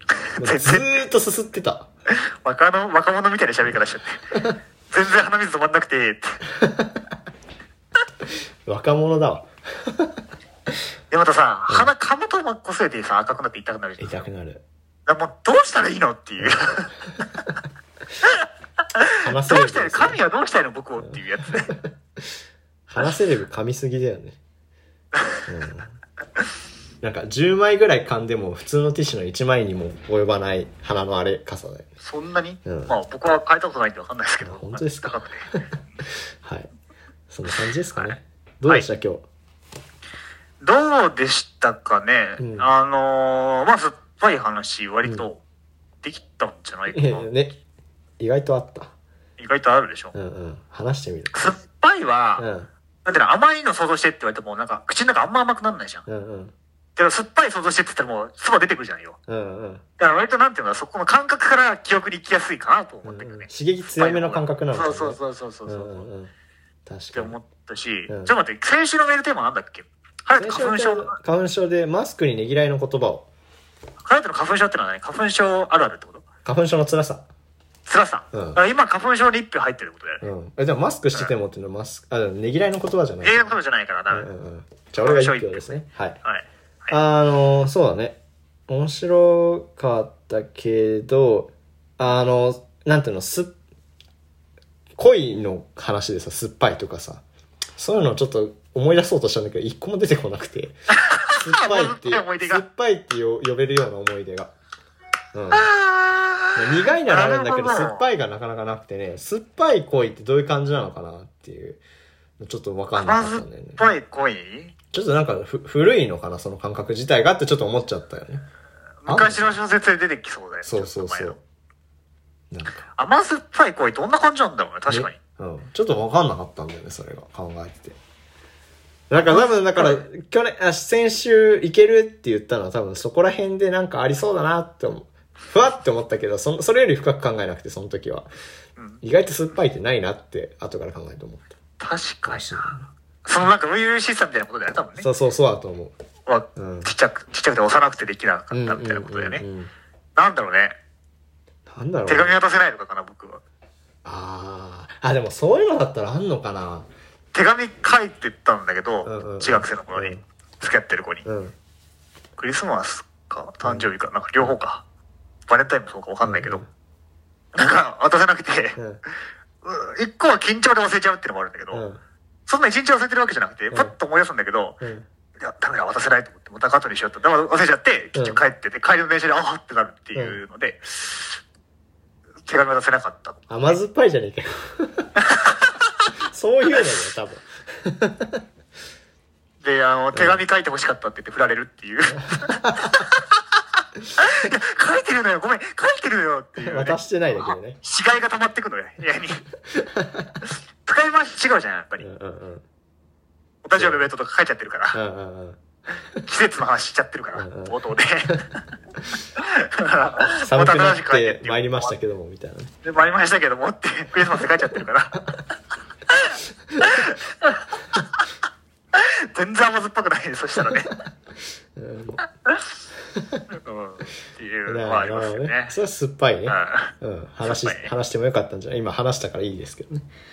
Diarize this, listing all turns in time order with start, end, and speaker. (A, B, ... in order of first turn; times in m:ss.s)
0:00.2-0:01.0 A
0:00.4-0:01.9 B
0:02.1-0:04.2 A
0:04.9-0:06.4 A
0:06.6-0:06.9 B
0:08.6-0:10.2 B
0:11.1-0:14.2 A
0:14.0-0:14.6 B
0:15.0-0:16.9 A
0:18.9-0:21.7 A
0:19.2-0:20.2 B
0:21.1-0:21.9 B
0:22.9-0:24.4 B
0:25.2-0:25.4 A
0:25.5-0:25.9 B
0:27.0-0:31.9 B
0:32.0-0:35.5 A
0:32.6-0:32.9 B
0:34.4-0:35.6 B
0:36.4-0:36.7 B
0:37.3-0:39.3 B
0:40.6-0:45.4 A
0:42.4-0:42.7 B
0:46.0-0:47.2 A
0:46.9-0:47.6 B
0:48.2-0:48.9 B
0:49.4-0:50.1 A
0:50.1-0:51.4 B
0:51.3-0:52.4 A
0:52.4-0:52.7 B
0:53.0-0:56.0 A
0:56.0-0:56.5 B
0:57.0-0:59.2 A
0:59.3-0:59.8 B
1:00.0-1:06.1 A
1:03.0-1:06.3 B
1:06.8-1:07.3 B
1:07.1-1:11.2 A
1:08.1-1:08.3 B
1:10.4-1:13.3 B
1:14.0-1:16.2 A
1:16.4-1:17.2 B
1:17.8-1:20.2 A
1:18.3-1:18.6 B
1:20.2-1:23.5 B
1:23.2-1:24.3 A
1:24.1-1:26.2 B
1:25.0-1:25.7 A
1:26.2-1:26.9 A
1:26.9-1:33.6 B
1:35.0-1:37.2 B
1:37.8-1:40.8 B
1:40.9-1:42.6 A
1:41.3-1:44.5 B
1:45.3-1:45.7 B
1:45.5-1:48.0 A
1:46.6-1:51.8 B
1:52.4-1:53.9 B
1:53.0-1:54.7 A
1:54.9-1:58.4 B
1:59.0-2:01.4 A
1:59.1-1:59.6 B
2:00.6-2:01.4 B
2:02.5-2:02.8 B
2:03.0-2:05.2 A
2:04.9-2:08.0 B
2:09.1-2:18.3 B
2:09.3-2:10.0 A
2:19.0-2:21.5 B
2:21.8-2:22.7 A
2:22.3-2:22.8 B
2:23.2-2:25.1 A
2:25.0-2:26.0 B
2:26.2-2:29.4 A
2:26.6-2:26.9 B
2:28.5-2:29.7 B
2:30.2-2:30.8 A
2:31.7-2:32.3 B
2:32.0-2:33.4 A
2:34.0-2:36.9 B
2:37.3-2:41.2 A
2:39.0-2:40.2 B
2:41.2-2:41.5 B
2:42.4-2:44.8 A
2:43.6-2:43.9 B
2:45.5-2:46.6 A
2:46.2-2:46.7 B
2:47.5-2:48.8 A
2:48.8-2:49.0 B
2:49.6-2:51.8 A
2:51.7-2:52.0 B
2:52.5-2:54.8 A
2:54.8-2:55.0 B
2:55.4-3:01.4 A
2:58.1-2:58.4 B
3:00.1-3:00.4 B
3:02.4-3:03.4 A
3:03.5-3:05.1 B
3:05.2-3:05.7 A
3:06.3-3:08.4 B
3:09.6-3:13.2 A
3:10.1-3:10.4 B
3:12.2-3:12.9 B
3:14.2-3:19.4 A
3:16.6-3:17.8 B
3:19.7-3:20.3 B
3:20.8-3:22.0 A
3:22.0-3:22.6 B
3:23.6-3:25.0 A
3:23.7-3:24.0 B
3:24.9-3:25.6 B
3:26.2-3:28.5 A
3:27.4-3:27.7 B
3:29.3-3:31.9 A
3:30.4-3:32.7 B
3:32.8-3:35.2 A
3:36.1-3:37.6 A
3:38.9-3:41.0 A
3:41.7-3:42.2 B
3:43.2-3:43.4 B
3:43.5-3:45.8 A
3:44.7-3:50.1 B
3:46.5-3:46.9 A
3:47.4-3:47.9 A